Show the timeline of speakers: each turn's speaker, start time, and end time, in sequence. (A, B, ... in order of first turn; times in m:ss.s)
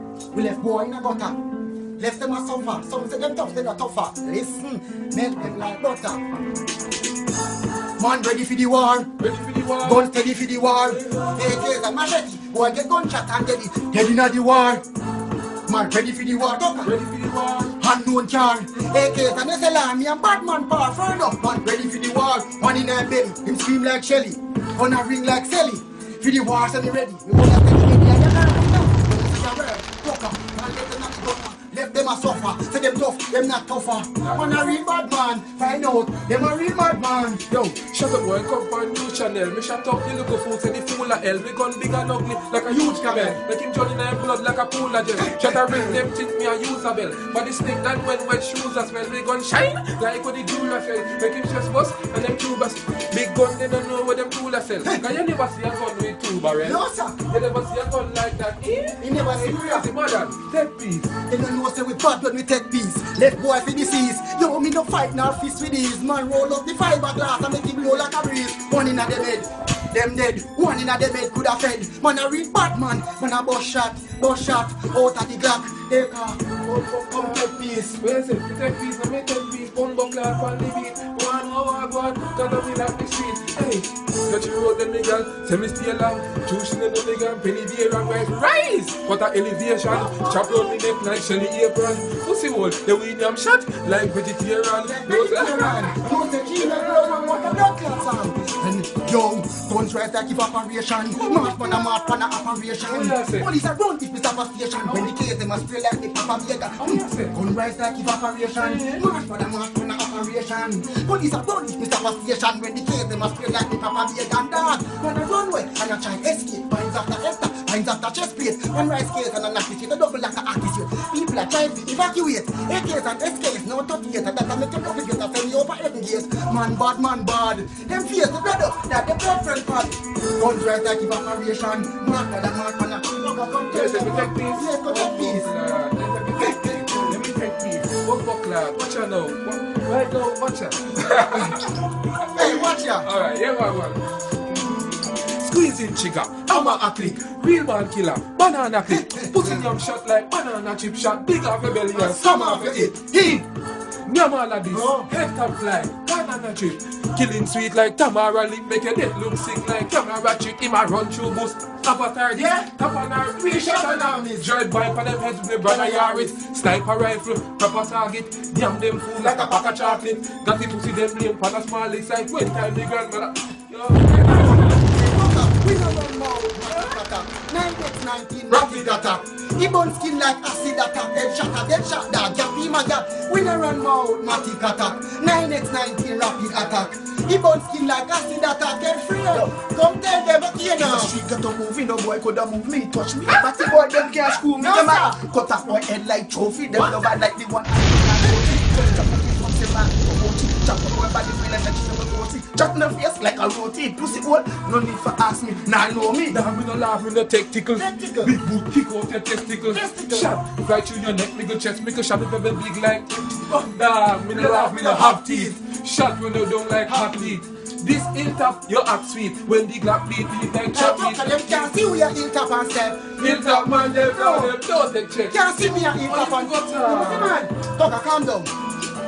0:00.3-0:01.4 A
0:02.0-0:06.2 A
0:08.0-0:09.1 A
0:09.2-0:10.1 B
0:09.8-0:14.8 A
0:10.8-0:11.4 B
0:15.7-0:16.9 A
0:16.8-0:17.8 B
0:17.8-0:37.5 A
0:34.2-0:34.4 B
0:37.5-1:01.1 B
0:42.6-0:43.4 A
0:45.2-0:46.0 A
0:54.8-0:55.2 A
0:56.5-0:57.2 A
0:59.0-0:59.9 A
1:01.2-1:17.9 A
1:16.6-1:37.6 B
1:29.9-1:30.8 A
1:34.8-2:15.5 A
1:41.1-1:41.9 B
1:42.8-1:43.5 B
1:46.8-1:47.3 B
1:48.5-1:49.1 B
2:13.7-2:24.0 B
2:16.4-2:17.2 A
2:22.3-2:23.1 A
2:25.3-2:33.4 B
2:26.5-2:27.2 A
2:28.9-2:29.7 A
2:31.9-2:33.4 A
2:34.0-2:54.9 B
2:34.7-2:35.1 A
2:42.3-2:42.7 A
2:43.4-2:44.5 A
2:45.6-2:46.4 A
2:49.2-2:50.0 A
2:54.3-3:11.2 A
2:56.7-2:57.0 B
2:58.5-2:59.2 B
3:04.5-3:05.0 B
3:06.4-3:06.9 B
3:10.8-3:26.4 C
3:14.5-3:15.2 A
3:18.2-3:19.0 A
3:26.3-3:41.7 B
3:27.8-3:28.4 A
3:29.5-3:30.3 A
3:34.3-3:35.6 A
3:36.8-3:37.4 A
3:40.7-3:44.6 A
3:43.2-3:45.4 B
3:45.3-3:48.5 A
3:45.9-3:47.4 B